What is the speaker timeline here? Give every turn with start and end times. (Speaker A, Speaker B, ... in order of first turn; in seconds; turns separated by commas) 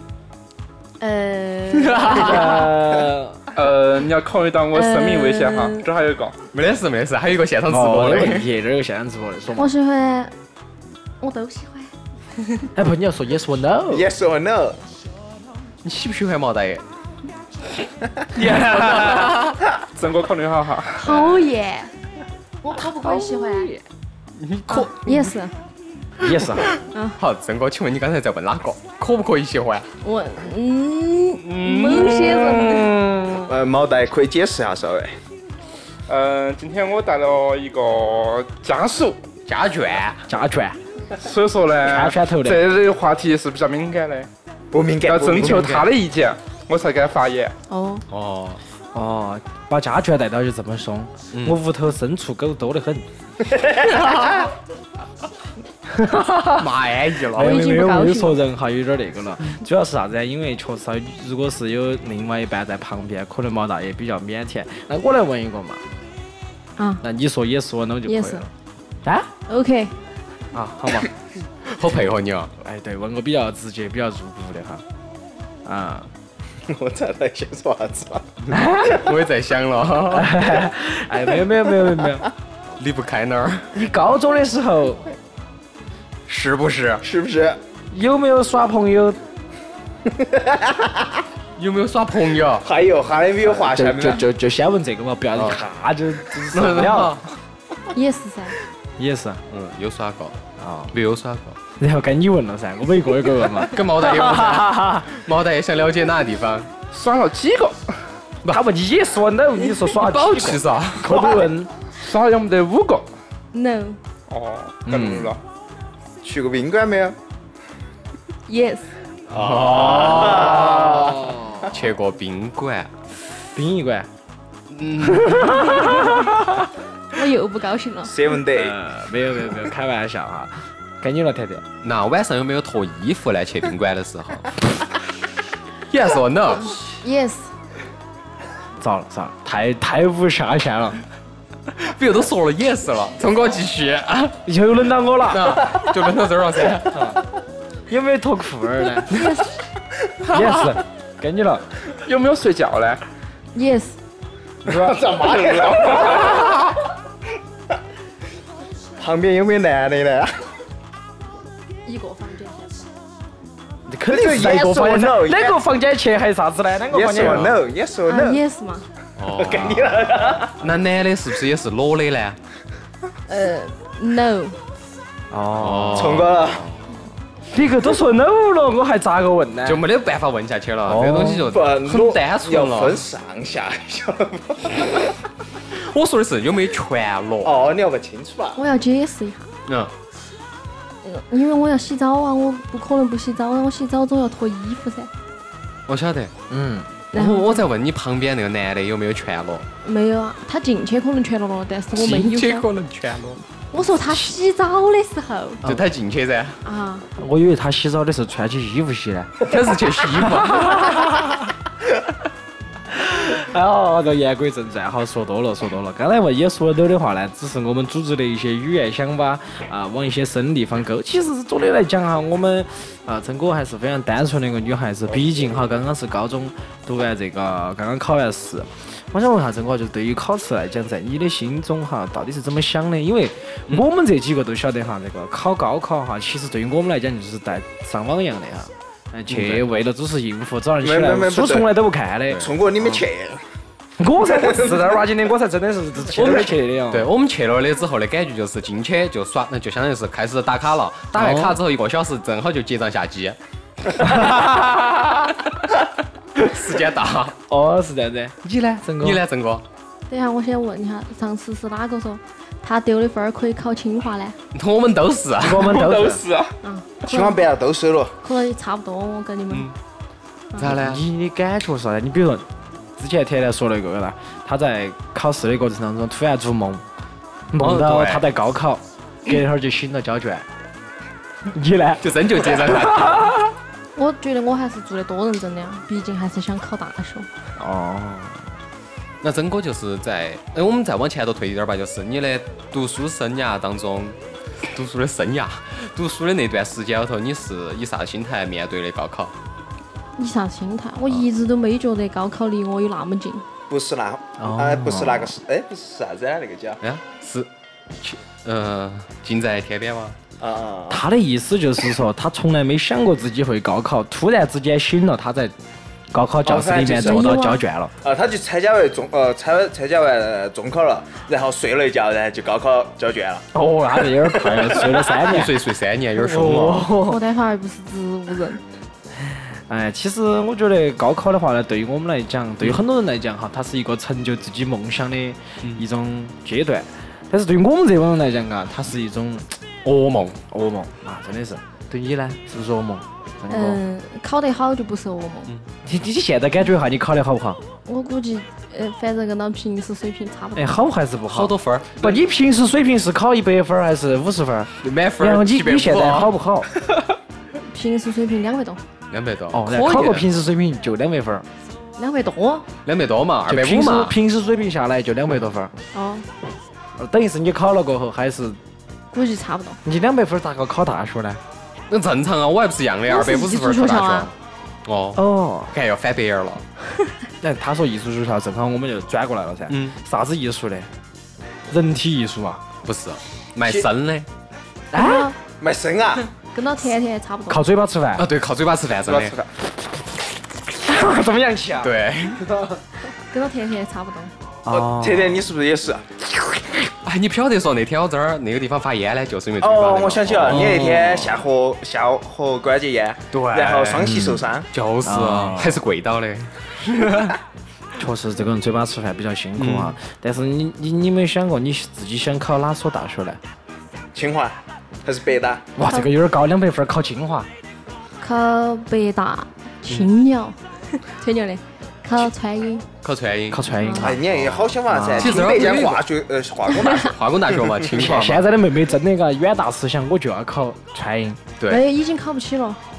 Speaker A: 1.0-2.7, Speaker B: 1.8-2.6, Speaker C: 2.0-3.4, Speaker D: 3.5-6.4, Speaker A: 4.7-5.8, Speaker B: 6.5-8.5, Speaker C: 7.7-9.7, Speaker A: 9.6-10.3, Speaker A: 11.2-12.7, Speaker C: 12.7-14.1, Speaker E: 13.9-14.8, Speaker B: 15.8-16.8, Speaker B: 18.4-19.6, Speaker D: 18.8-19.4, Speaker D: 19.9-21.1, Speaker A: 21.0-21.9, Speaker A: 22.6-23.7, Speaker C: 22.8-23.8, Speaker B: 24.4-24.9, Speaker A: 24.7-25.6, Speaker C: 26.2-26.7, Speaker B: 26.3-29.9, Speaker A: 26.9-27.2, Speaker A: 30.0-32.9, Speaker C: 31.9-33.5, Speaker E: 33.5-35.2, Speaker D: 36.1-39.2, Speaker B: 39.5-40.2, Speaker C: 40.3-40.8, Speaker D: 41.2-44.3, Speaker C: 41.8-42.6, Speaker E: 44.7-45.8, Speaker D: 45.1-47.5, Speaker C: 45.5-45.7, Speaker B: 45.5-45.9, Speaker A: 47.7-48.0, Speaker B: 48.1-48.6, Speaker C: 48.9-53.1, Speaker B: 51.3-51.6, Speaker B: 53.8-54.5, Speaker C: 55.9-56.7, Speaker B: 56.5-57.5, Speaker C: 57.3-65.8, Speaker A: 57.4-58.4, Speaker A: 66.8-67.0, Speaker C: 67.0-68.5, Speaker A: 68.1-68.5, Speaker C: 69.0-69.3, Speaker A: 69.5-70.0, Speaker C: 70.5-71.1, Speaker B: 71.7-72.5, Speaker C: 72.6-74.8, Speaker C: 75.7-76.1, Speaker E: 76.7-78.5, Speaker C: 78.5-79.1, Speaker B: 78.8-80.5, Speaker C: 80.1-82.3, Speaker B: 82.8-83.7, Speaker C: 83.7-85.2, Speaker B: 86.3-87.0, Speaker E: 87.0-87.6, Speaker C: 87.9-89.2, Speaker E: 90.1-91.0, Speaker B: 91.6-92.7, Speaker E: 92.6-94.2, Speaker C: 93.4-97.2, Speaker B: 95.3-95.6, Speaker B: 96.5-97.3, Speaker A: 97.9-98.6, Speaker C: 99.0-99.4, Speaker B: 99.5-100.4, Speaker C: 100.6-100.9, Speaker B: 100.9-101.6, Speaker C: 101.8-105.1, Speaker B: 103.6-106.7, Speaker D: 106.9-107.9, Speaker C: 108.5-111.7, Speaker B: 109.9-111.3, Speaker D: 111.9-113.1, Speaker A: 113.5-114.0, Speaker D: 114.3-115.4, Speaker C: 114.9-115.4, Speaker E: 116.2-117.2, Speaker A: 118.5-118.9, Speaker B: 119.3-122.9, Speaker C: 119.4-121.7, Speaker E: 119.5-121.2, Speaker C: 123.5-124.1, Speaker B: 124.7-126.1, Speaker C: 125.0-126.7, Speaker A: 127.1-128.2, Speaker E: 128.0-128.8, Speaker C: 128.5-131.7, Speaker B: 131.8-134.8, Speaker B: 135.9-136.8, Speaker A: 136.9-137.5, Speaker C: 138.8-141.0, Speaker B: 141.8-144.4, Speaker C: 144.5-145.7, Speaker B: 145.3-147.2, Speaker C: 146.9-147.2, Speaker C: 147.9-149.2, Speaker A: 149.1-149.5, Speaker C: 150.3-151.7, Speaker D: 151.9-153.0, Speaker A: 153.5-154.0, Speaker D: 154.7-156.4, Speaker E: 154.7-156.7, Speaker E: 159.0-160.4, Speaker A: 161.8-162.8, Speaker C: 163.9-167.6, Speaker E: 164.1-165.6, Speaker E: 166.9-168.4, Speaker B: 167.2-167.6, Speaker A: 168.1-168.9, Speaker B: 169.2-170.0, Speaker E: 169.3-170.6, Speaker B: 170.6-172.4, Speaker A: 173.3-174.6, Speaker C: 175.3-176.3, Speaker B: 175.6-176.8, Speaker E: 175.9-176.7, Speaker C: 177.5-179.8, Speaker B: 179.7-183.1, Speaker C: 180.9-181.6, Speaker E: 181.5-185.1, Speaker B: 185.7-187.6, Speaker E: 187.4-188.6, Speaker A: 188.6-189.5, Speaker B: 189.7-189.9, Speaker A: 191.0-195.1, Speaker B: 195.9-196.3, Speaker C: 196.5-196.9, Speaker A: 197.1-197.6, Speaker B: 197.1-199.7, Speaker A: 199.8-202.7, Speaker B: 201.9-203.4, Speaker A: 203.7-205.6, Speaker B: 205.6-206.6, Speaker A: 206.6-207.1, Speaker C: 207.2-209.5, Speaker B: 209.4-211.3, Speaker C: 210.1-211.4, Speaker C: 212.9-243.0, Speaker B: 239.3-239.7, Speaker E: 240.8-241.7, Speaker E: 242.3-243.4, Speaker C: 244.0-247.1, Speaker E: 244.3-244.9, Speaker B: 246.2-253.4, Speaker C: 251.1-251.6, Speaker C: 254.0-255.4, Speaker B: 256.4-257.4, Speaker C: 257.5-259.2, Speaker B: 259.0-259.7, Speaker A: 260.1-264.4, Speaker B: 264.5-265.8, Speaker C: 265.4-266.2, Speaker D: 265.6-266.5, Speaker A: 266.6-267.4, Speaker E: 267.0-268.2, Speaker A: 268.2-269.7, Speaker B: 270.6-271.0, Speaker C: 270.6-276.9, Speaker C: 277.5-280.5, Speaker B: 277.6-278.3, Speaker C: 281.5-283.4, Speaker B: 282.0-283.4, Speaker A: 283.9-287.3, Speaker C: 287.6-288.5, Speaker B: 289.2-299.3, Speaker A: 300.2-303.4, Speaker E: 303.7-306.8, Speaker C: 304.4-305.4, Speaker B: 306.8-307.5, Speaker B: 308.0-310.2, Speaker E: 310.4-311.0, Speaker C: 310.9-315.6, Speaker C: 316.1-317.9, Speaker E: 316.4-317.4, Speaker A: 317.0-317.6, Speaker E: 318.0-323.5, Speaker C: 323.5-327.2, Speaker E: 324.0-324.9, Speaker B: 325.1-326.9, Speaker A: 327.0-328.6, Speaker C: 329.2-339.7, Speaker B: 339.8-340.4, Speaker C: 340.4-343.8, Speaker A: 343.5-345.5, Speaker C: 345.9-347.6, Speaker A: 347.9-350.8, Speaker C: 350.6-356.7, Speaker B: 351.3-352.2, Speaker B: 354.8-356.3, Speaker A: 357.7-358.8, Speaker B: 359.1-360.3, Speaker C: 359.5-361.5, Speaker A: 362.0-362.7, Speaker B: 362.9-364.2, Speaker C: 363.5-365.8, Speaker A: 365.9-366.3, Speaker C: 367.0-368.6, Speaker A: 369.1-369.8, Speaker C: 369.9-371.4, Speaker B: 371.9-374.3, Speaker A: 373.1-374.3, Speaker B: 374.9-376.6, Speaker C: 375.1-375.7, Speaker C: 377.4-380.9, Speaker B: 379.7-380.0, Speaker C: 381.7-382.6, Speaker B: 382.9-384.3, Speaker C: 384.9-385.3, Speaker A: 384.9-385.4, Speaker E: 385.6-386.3, Speaker A: 386.5-387.6, Speaker C: 387.5-388.3, Speaker B: 388.2-389.4, Speaker E: 389.1-389.4, Speaker C: 390.8-392.8, Speaker B: 391.8-392.5, Speaker A: 393.3-394.3, Speaker C: 394.6-395.5, Speaker E: 394.7-396.1, Speaker B: 397.0-401.4, Speaker E: 399.6-404.7, Speaker C: 400.5-401.0, Speaker B: 403.3-404.1, Speaker C: 404.0-404.5, Speaker B: 404.7-407.4, Speaker C: 405.0-405.8, Speaker C: 408.0-413.4, Speaker B: 409.6-410.0, Speaker E: 414.1-415.7, Speaker C: 415.8-417.5, Speaker A: 418.2-422.9, Speaker B: 423.0-423.7, Speaker C: 423.5-424.2, Speaker A: 423.8-424.1, Speaker E: 424.0-427.8, Speaker B: 424.2-426.1, Speaker C: 424.9-425.6, Speaker B: 426.9-428.5, Speaker C: 427.9-431.4, Speaker B: 431.6-431.9, Speaker A: 431.7-432.8